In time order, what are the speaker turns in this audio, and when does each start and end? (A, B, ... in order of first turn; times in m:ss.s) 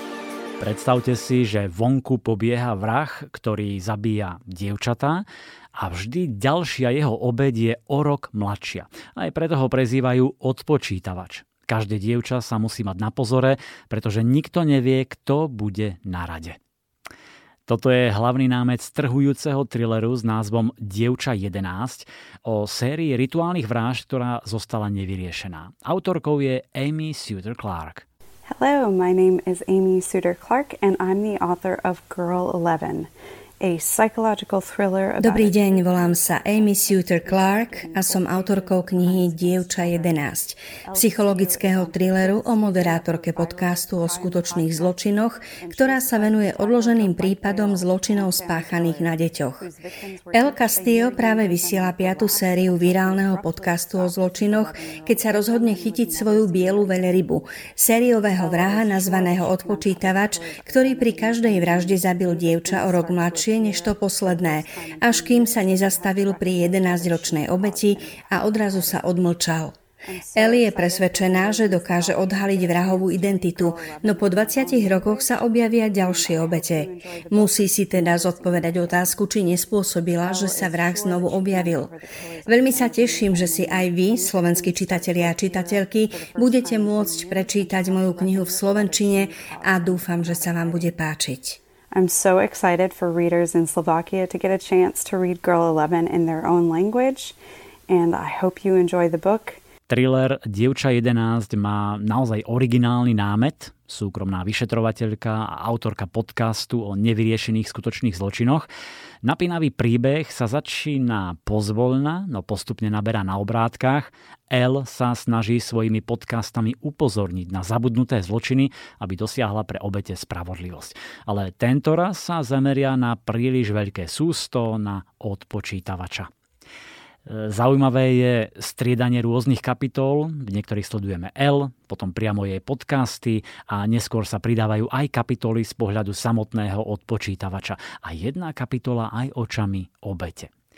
0:00.6-0:05.2 A
0:05.8-0:16.6 A
0:17.7-0:28.0 A
0:28.5-0:57.4 B
0:35.2-0:49.6 C
0:50.3-1:09.8 C
0:58.3-1:09.3 B
1:10.0-1:19.2 B
1:10.4-1:21.9 C
1:20.2-1:31.0 B
1:22.5-1:31.6 C
1:31.9-1:37.4 B
1:37.9-1:39.6 B
1:39.9-1:48.7 A
1:49.2-2:06.3 A
2:07.3-2:20.5 A